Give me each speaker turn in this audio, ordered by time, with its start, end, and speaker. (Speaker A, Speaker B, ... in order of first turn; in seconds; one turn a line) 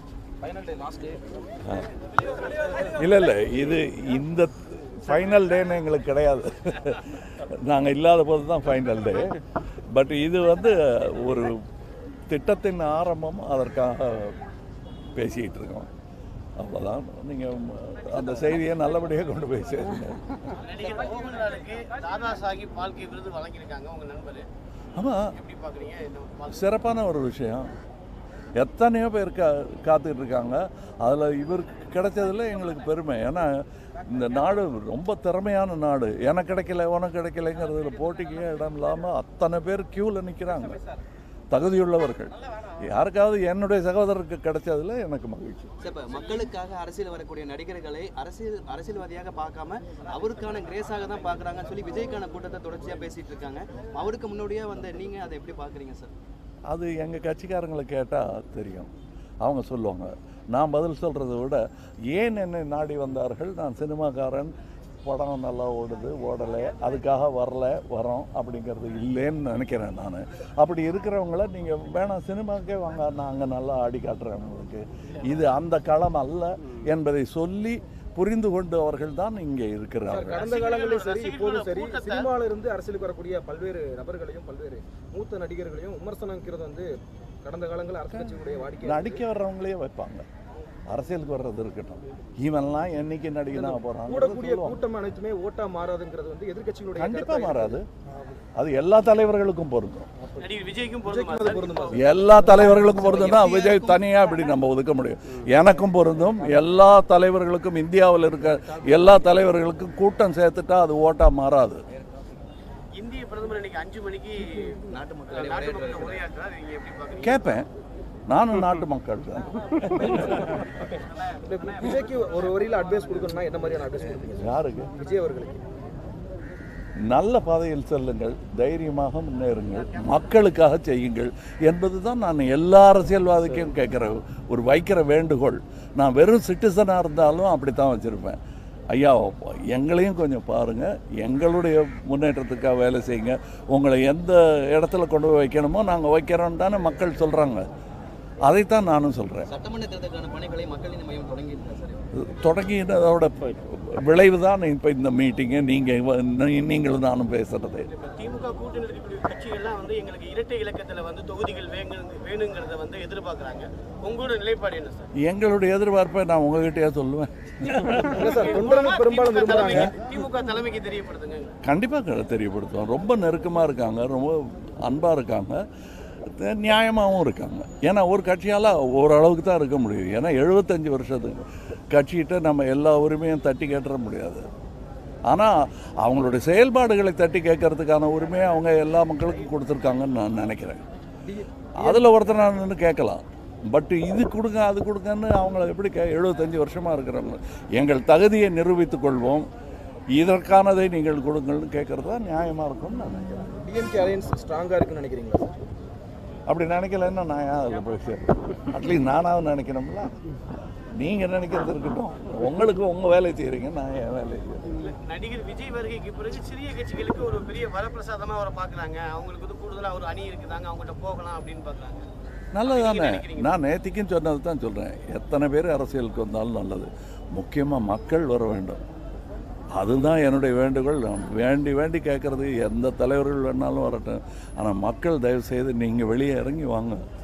Speaker A: 0.4-1.2
Speaker B: 2.8-9.4
Speaker B: 9.9-11.6
Speaker B: 12.3-14.4
Speaker B: 15.2-15.9
Speaker B: 16.6-20.4
Speaker C: 20.6-24.5
Speaker B: 24.9-25.3
Speaker C: 25.3-26.6
Speaker B: 26.5-27.7
Speaker B: 28.6-33.5
Speaker B: 34.0-40.8
Speaker B: 41.5-45.7
Speaker D: 45.8-56.1
Speaker B: 56.7-58.9
Speaker B: 59.4-64.5
Speaker B: 65.0-80.4
Speaker A: 80.1-86.9
Speaker C: 80.3-82.3
Speaker A: 87.4-89.2
Speaker B: 88.1-90.2
Speaker B: 90.9-94.8
Speaker A: 93.5-97.8
Speaker B: 97.0-97.8
Speaker B: 98.6-100.1
Speaker A: 100.2-100.5
Speaker C: 100.4-102.0
Speaker A: 101.0-103.1
Speaker B: 101.9-111.8
Speaker D: 102.5-104.1
Speaker C: 112.9-117.6
Speaker D: 114.9-116.2
Speaker B: 117.2-117.7
Speaker B: 118.3-120.6
Speaker C: 120.8-121.4
Speaker A: 121.4-125.6
Speaker B: 124.4-124.9
Speaker B: 127.0-138.4
Speaker B: 138.9-147.7
Speaker B: 148.4-149.5
Speaker D: 149.5-152.1
Speaker B: 152.2-157.9
Speaker C: 157.9-165.1
Speaker B: 165.2-168.3
Speaker A: 167.9-169.9
Speaker C: 168.2-171.6
Speaker B: 171.6-175.6
Speaker B: 176.3-184.4
Speaker B: 185.2-190.8
Speaker A: 191.2-192.1
Speaker B: 191.8-199.5
Speaker B: 200.1-203.5
Speaker A: 203.5-205.5
Speaker B: 206.5-210.1
Speaker B: 210.9-214.8
Speaker C: 214.8-222.1
Speaker B: 222.5-228.8
Speaker C: 222.6-223.5
Speaker B: 229.7-237.0